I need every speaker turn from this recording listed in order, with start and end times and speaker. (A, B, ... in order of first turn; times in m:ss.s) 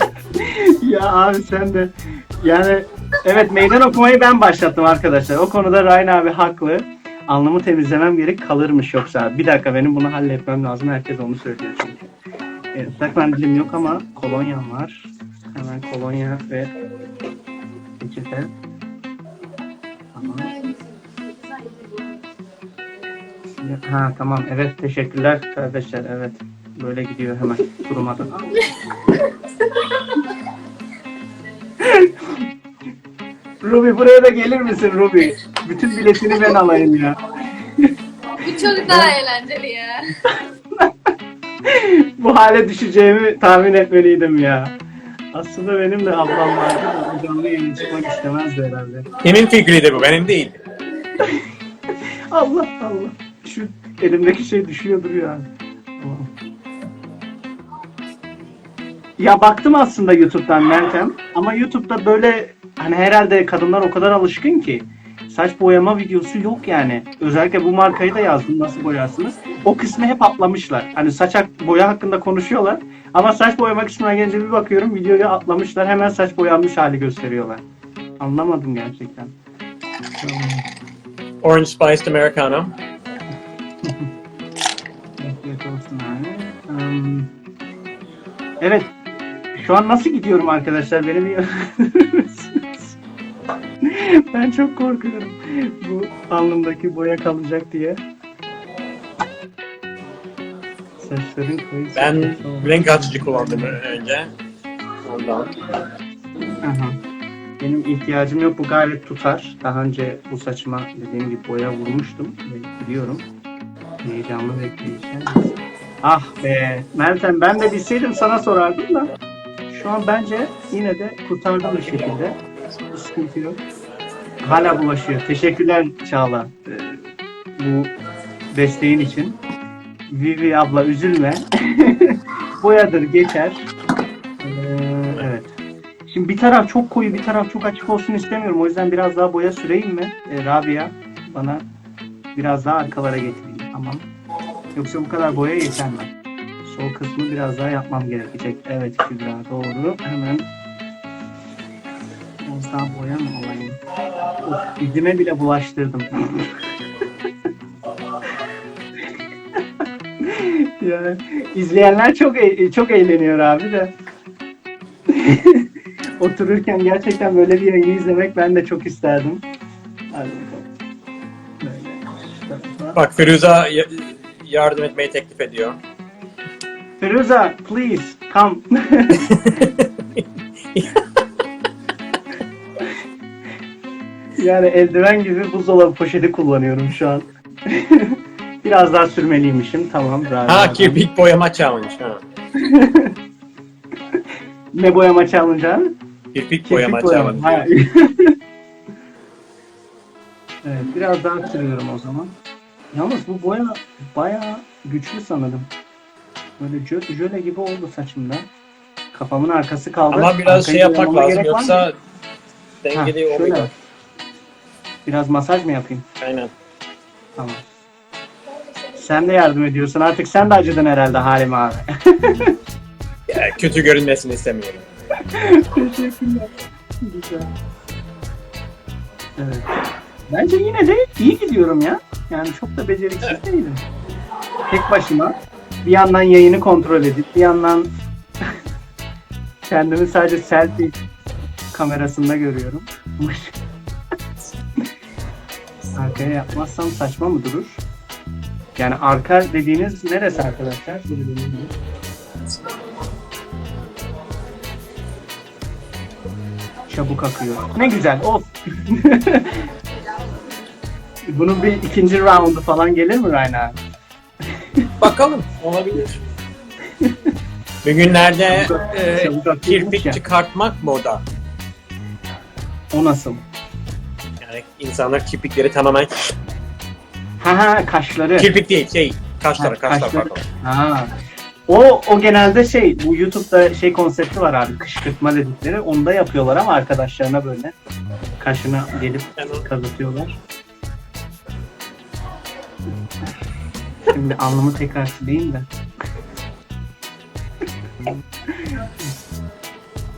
0:00.3-0:12.0 A
0:12.7-0:16.7 A
0:18.0-0:18.5 A
0:20.1-0:20.5 A
0:23.6-0:28.7 A
0:29.2-0:29.8 B
0:31.8-0:32.4 A
0:33.6-0:39.1 A
0:38.3-0:40.2 B
0:40.8-0:41.1 A
0:41.6-0:44.7 A
0:45.3-0:49.1 A
0:49.2-0:50.6 C
0:52.3-0:55.4 A
0:56.0-0:56.3 A
0:59.2-1:17.6 A
1:18.2-1:19.3 A
1:20.2-1:20.6 A
1:21.4-1:22.7 C
1:25.2-1:27.3 A
1:28.6-1:28.9 A
1:29.6-1:33.0 A
1:33.8-1:38.0 A
1:41.0-1:43.8 A
1:41.9-1:44.3 C
1:45.0-1:45.5 C
1:46.6-1:47.0 A
1:47.6-1:53.2 A
1:54.0-1:55.5 A
1:56.0-1:59.1 A
1:59.7-2:02.4 A
2:02.9-2:03.6 A
2:04.4-2:07.0 A
2:07.6-2:07.9 A
2:08.5-2:09.4 A
2:10.1-2:13.7 A
2:14.4-2:15.5 A
2:16.1-2:21.6 A
2:22.3-2:24.0 A
2:24.7-2:26.1 A
2:26.6-2:30.4 A
2:32.4-2:33.8 A
2:34.4-2:36.5 A
2:40.2-2:43.9 A
2:45.1-2:45.7 A
2:46.2-2:49.4 A
2:50.1-2:50.7 A
2:51.6-2:53.0 A
2:52.9-2:55.8 C
2:57.0-2:59.3 A
2:59.1-3:01.0 C
3:04.4-3:11.1 A
3:10.4-3:12.2 C
3:12.6-3:13.1 A
3:14.7-3:15.9 A
3:16.3-3:17.7 C
3:16.7-3:18.4 A
3:20.6-3:22.3 A
3:22.9-3:25.7 A
3:26.6-3:28.5 A
3:29.1-3:31.8 A
3:30.1-3:31.9 C
3:32.8-3:33.7 C
3:32.9-3:33.7 A
3:35.0-3:36.0 A
3:36.2-3:36.5 C
3:37.4-3:37.6 A
3:38.9-3:42.6 A
3:43.3-3:44.8 C
3:45.2-3:47.5 A
3:49.4-3:53.8 A
3:54.7-3:57.9 A
3:59.7-4:01.0 A
4:01.7-4:03.6 A
4:05.9-4:07.8 A
4:08.8-4:11.7 A
4:16.9-4:19.6 A
4:21.3-4:23.8 A
4:24.6-4:24.9 A
4:25.0-4:26.2 C
4:27.0-4:27.3 A
4:27.8-4:31.2 C
4:28.5-4:30.2 A
4:32.9-4:33.4 A
4:34.4-4:36.3 C
4:37.4-4:38.5 A
4:38.4-4:40.4 C
4:39.6-4:41.1 A
4:41.7-4:47.7 A
4:48.4-4:50.4 A
4:49.4-4:49.6 C
4:54.1-4:55.7 A
4:58.6-4:59.2 A